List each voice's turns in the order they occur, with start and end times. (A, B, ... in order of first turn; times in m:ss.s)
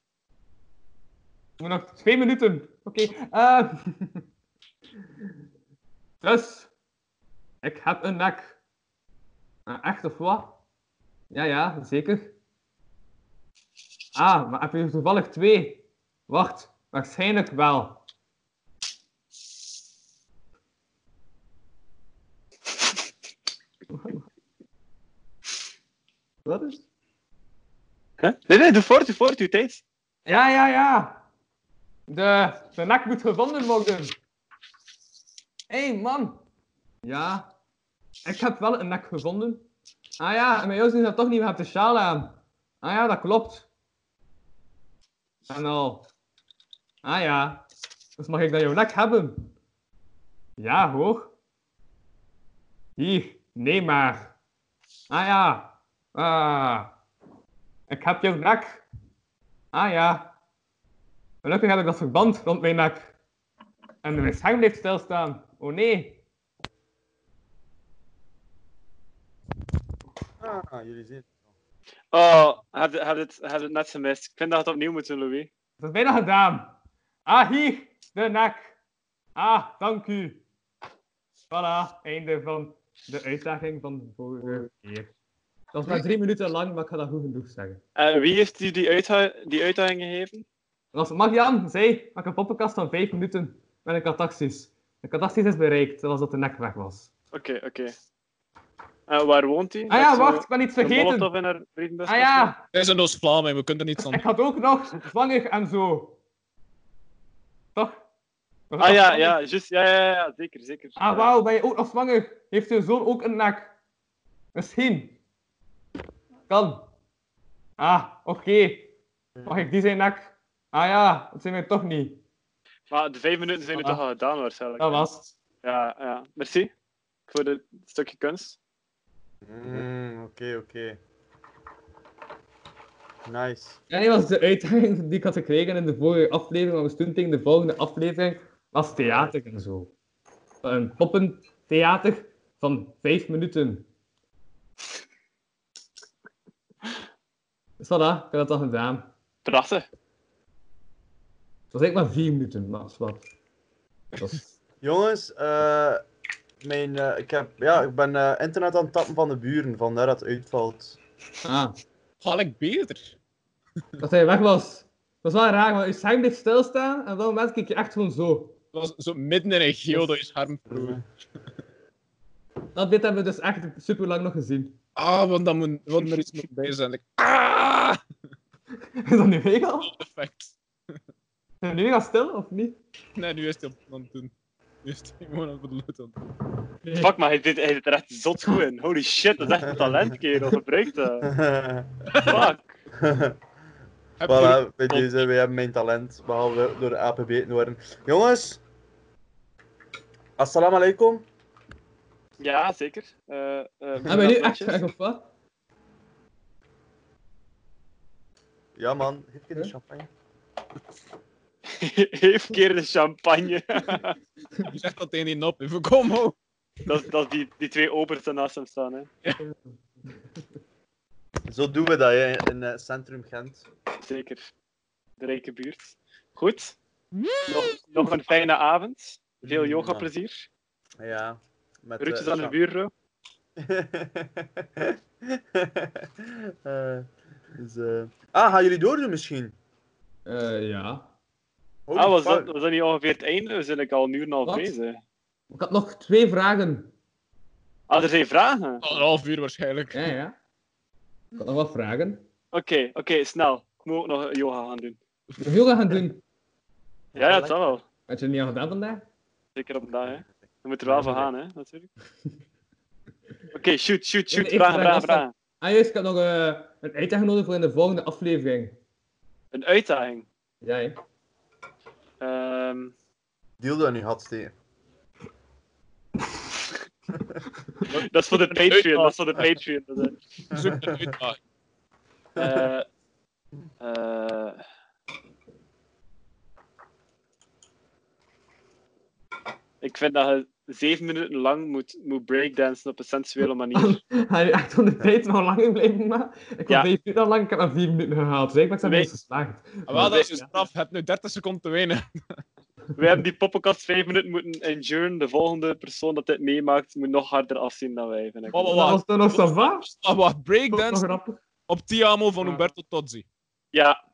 0:01.6-0:04.2 A
0:06.2-0:06.7 A
0:07.6-0:08.6 A
0:09.7-0:10.6 A
0:11.3-0:12.3 A
0:14.1-0:18.0 A
0:23.9-0:24.2 A
0:26.4-0:26.8 A
0:28.2-0:29.8 B
0:30.2-0:31.2 A
0:32.1-0:34.2 A
0:35.7-0:36.4 A
0:37.0-0:37.5 A
0:38.2-0:39.6 A
0:40.2-0:43.6 A
0:45.5-0:46.1 A
0:47.0-0:47.6 A
0:48.2-0:49.5 A
0:50.6-0:51.3 A
0:53.0-0:54.3 A
0:55.1-0:56.9 A
0:57.9-0:58.8 A
0:59.7-1:00.3 A
1:01.4-1:03.1 A
1:04.0-1:06.2 A
1:10.4-1:11.3 C
1:12.1-1:15.5 B
1:15.8-1:16.7 A
1:17.2-1:18.7 A
1:19.4-1:20.4 A
1:21.5-1:25.1 A
1:25.7-1:27.8 A
1:28.0-1:30.4 B
1:30.9-1:37.1 A
1:37.3-1:37.9 B
1:39.1-1:42.5 B
1:39.9-1:41.3 A
1:42.1-1:42.6 A
1:42.7-1:44.2 D
1:44.0-1:46.2 A
1:48.7-1:49.4 A
1:48.8-1:51.3 B
1:51.0-1:53.7 A
1:54.5-1:55.2 A
1:56.5-1:56.9 A
1:57.8-1:58.9 A
1:59.4-1:59.7 C
1:59.4-2:02.2 A
2:02.9-2:05.1 B
2:03.8-2:04.0 A
2:04.8-2:05.3 A
2:05.6-2:06.7 B
2:07.3-2:08.6 B
2:09.4-2:11.0 C
2:13.2-2:13.8 C
2:13.9-2:19.9 A
2:19.0-2:19.3 C
2:20.6-2:23.8 A
2:27.8-2:29.1 A
2:29.4-2:29.9 B
2:31.7-2:33.2 A
2:34.8-2:36.0 C
2:36.6-2:41.0 C
2:41.4-2:41.8 A
2:42.2-2:43.2 D
2:44.0-2:48.5 A
2:48.7-2:51.0 D
2:50.7-2:51.0 C
2:52.7-2:54.8 A
2:55.0-2:58.0 D
2:59.0-2:59.9 A
2:59.8-3:01.0 D
3:01.6-3:02.8 A
3:03.2-3:04.3 D
3:04.8-3:06.2 D
3:06.8-3:07.1 A
3:07.0-3:11.2 B
3:09.5-3:10.1 C
3:11.2-3:11.9 C
3:12.1-3:12.4 D
3:12.2-3:12.8 B
3:12.9-3:13.4 C
3:14.2-3:15.2 D
3:14.2-3:18.6 C
3:20.4-3:21.2 C
3:22.4-3:24.9 B
3:24.1-3:25.3 A
3:28.8-3:30.1 C
3:31.7-3:34.1 B
3:34.6-3:36.4 D
3:36.9-3:39.1 B
3:41.5-3:43.7 C
3:44.0-3:44.4 B
3:45.2-3:46.7 B
3:47.5-3:50.5 B
3:51.0-3:52.6 C
3:52.0-3:52.9 B
3:53.6-3:59.5 C
4:00.2-4:01.1 A
4:01.9-4:02.5 C
4:01.9-4:05.0 B
4:04.4-4:04.7 A
4:05.5-4:06.9 A
4:07.9-4:08.8 B
4:08.8-4:10.1 D
4:09.9-4:10.4 A
4:11.4-4:12.2 A
4:12.5-4:15.0 B
4:15.4-4:16.2 A
4:17.1-4:17.8 C
4:17.2-4:17.8 B
4:18.1-4:19.0 A
4:19.6-4:21.9 B
4:20.8-4:21.3 C
4:23.5-4:25.3 B
4:24.3-4:28.7 A
4:29.5-4:30.3 B
4:30.6-4:31.0 A
4:32.2-4:32.9 B
4:33.6-4:34.5 C
4:37.9-4:39.1 D
4:38.0-4:40.1 B
4:40.5-4:41.4 D
4:40.5-4:41.0 C
4:42.4-4:42.8 B
4:42.4-4:42.6 C
4:43.8-4:44.6 B
4:49.8-4:54.0 B
4:53.7-5:00.5 A
4:58.8-4:59.1 B
4:59.9-5:02.1 D
5:03.0-5:08.8 B
5:08.5-5:13.2 D
5:08.7-5:09.9 A
5:10.7-5:11.4 A
5:13.7-5:14.0 B